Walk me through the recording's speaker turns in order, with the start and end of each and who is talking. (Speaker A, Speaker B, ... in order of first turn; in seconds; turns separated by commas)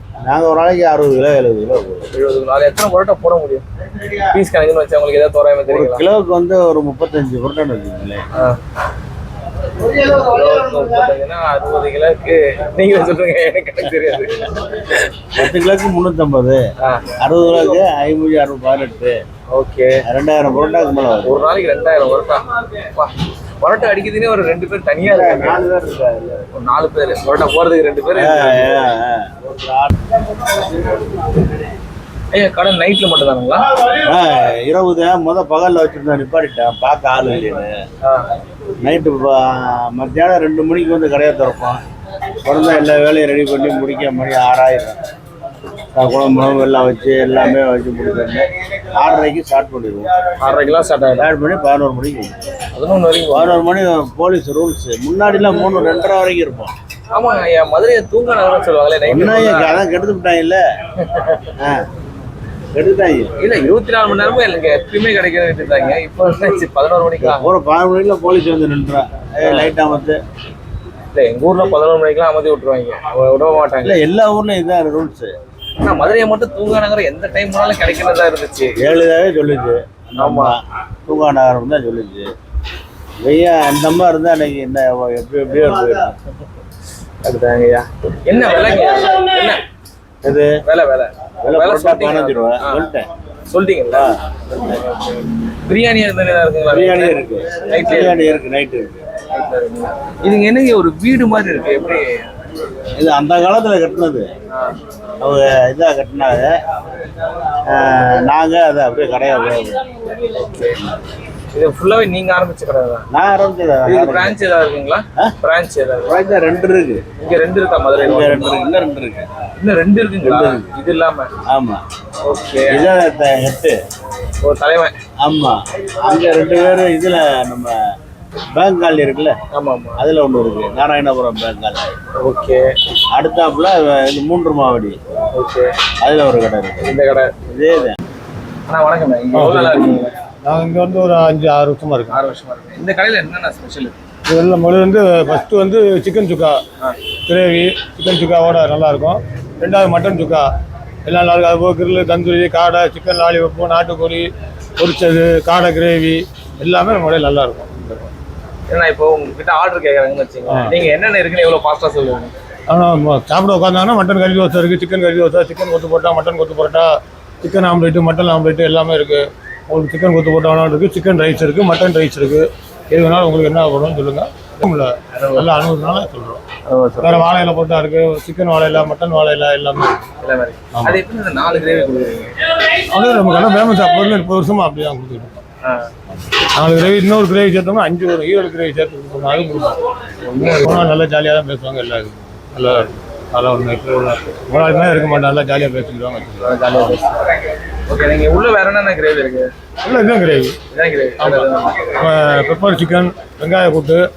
Speaker A: 0.2-2.0, Speaker B: 2.1-3.6, Speaker B: 4.3-6.0, Speaker A: 5.7-8.2, Speaker B: 9.9-14.9, Speaker A: 15.3-16.6, Speaker B: 16.8-17.1, Speaker A: 17.2-19.2, Speaker B: 19.5-20.0, Speaker A: 20.1-21.4, Speaker B: 21.2-25.6, Speaker A: 25.0-26.4, Speaker B: 26.5-28.9, Speaker A: 28.1-29.9, Speaker B: 32.3-33.6, Speaker A: 34.0-37.8, Speaker A: 38.8-41.8, Speaker A: 42.4-45.0, Speaker A: 45.9-50.1, Speaker B: 50.4-51.3, Speaker A: 51.2-52.3, Speaker B: 52.7-53.6, Speaker A: 53.3-56.7, Speaker B: 57.1-59.8, Speaker A: 59.1-60.6, Speaker B: 61.0-61.5, Speaker A: 61.6-61.9, Speaker A: 62.7-63.3, Speaker B: 63.4-67.5, Speaker A: 67.2-70.2, Speaker B: 69.4-69.7, Speaker B: 71.1-74.0, Speaker A: 73.8-75.3, Speaker B: 75.8-78.8, Speaker A: 78.8-82.3, Speaker B: 80.2-80.5, Speaker A: 83.2-86.1, Speaker B: 87.2-89.6, Speaker A: 90.2-90.5, Speaker B: 90.6-92.9, Speaker A: 91.4-93.1, Speaker B: 93.5-98.3, Speaker A: 96.7-99.0, Speaker B: 99.3-102.2, Speaker A: 102.9-104.3, Speaker B: 104.5-104.8, Speaker A: 105.2-106.5, Speaker A: 107.5-109.8, Speaker B: 110.2-110.8, Speaker B: 111.5-113.0, Speaker A: 113.1-114.4, Speaker B: 113.9-116.1, Speaker A: 116.0-117.0, Speaker B: 117.2-118.6, Speaker A: 118.0-119.3, Speaker B: 119.6-121.3, Speaker A: 120.2-120.7, Speaker A: 121.5-121.8, Speaker B: 122.2-122.9, Speaker A: 122.7-123.8, Speaker B: 124.4-124.9, Speaker A: 125.2-127.8, Speaker A: 128.5-129.4, Speaker B: 129.5-130.0, Speaker A: 130.0-131.9, Speaker B: 132.2-132.7, Speaker A: 133.1-135.0, Speaker B: 135.3-135.7, Speaker A: 136.0-136.9, Speaker B: 136.8-137.3, Speaker A: 137.5-138.0, Speaker B: 138.7-140.1, Speaker C: 139.3-139.8, Speaker C: 140.4-142.2, Speaker B: 142.1-143.9, Speaker C: 144.3-146.6, Speaker C: 147.3-150.5, Speaker C: 151.1-158.1, Speaker B: 158.7-162.3, Speaker C: 162.7-166.9, Speaker C: 167.4-176.4, Speaker B: 175.2-175.4, Speaker B: 176.7-177.3, Speaker C: 177.0-180.0, Speaker B: 180.2-182.3, Speaker C: 180.7-181.0, Speaker C: 182.9-185.4, Speaker B: 185.6-185.9, Speaker C: 186.6-189.8, Speaker B: 190.2-190.8, Speaker C: 190.6-196.8, Speaker B: 196.4-197.2, Speaker B: 197.9-199.5, Speaker C: 199.8-200.6, Speaker B: 200.7-201.9, Speaker C: 201.2-201.5, Speaker C: 202.0-204.0